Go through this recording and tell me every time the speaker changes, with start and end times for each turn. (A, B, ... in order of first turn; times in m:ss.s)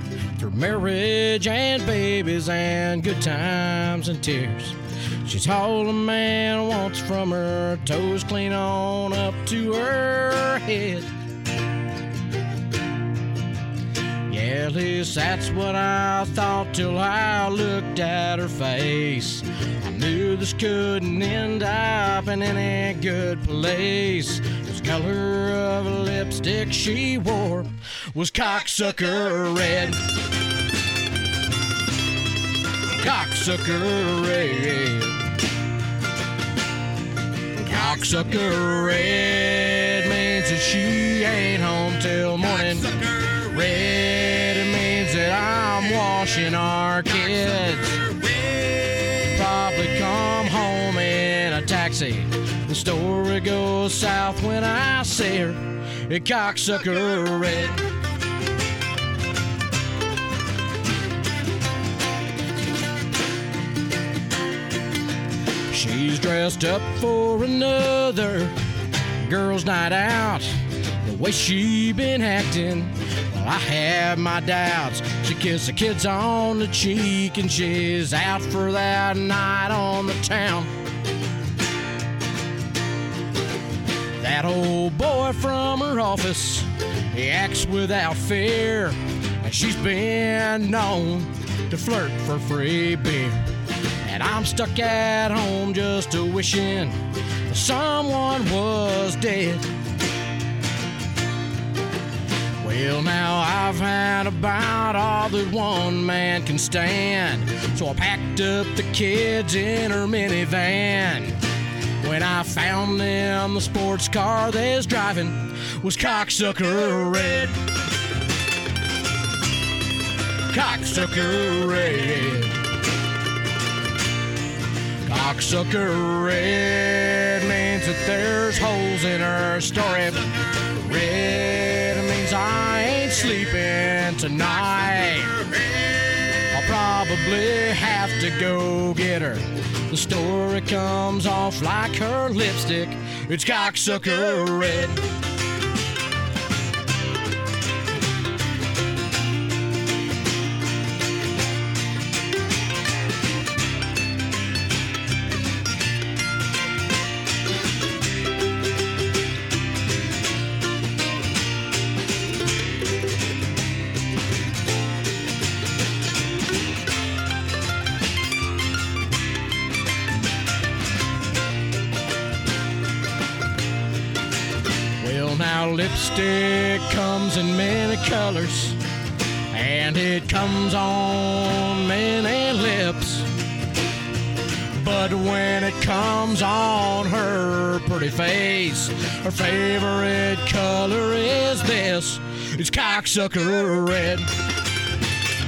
0:00.4-0:11.1 A
0:14.3-0:30.0 A
0:33.0-0:35.2 A
0:37.6-0:48.1 A
0:49.2-0:57.8 A
1:05.7-1:08.6 A
1:09.2-1:20.7 A
1:24.2-1:33.4 A
1:34.0-1:39.7 A
1:42.6-1:51.4 A
1:52.0-1:57.6 A
2:00.5-2:02.6 A
2:05.1-2:15.4 A
2:16.5-2:25.0 A
2:55.0-2:58.8 A
2:59.5-3:03.3 A
3:04.7-3:14.3 A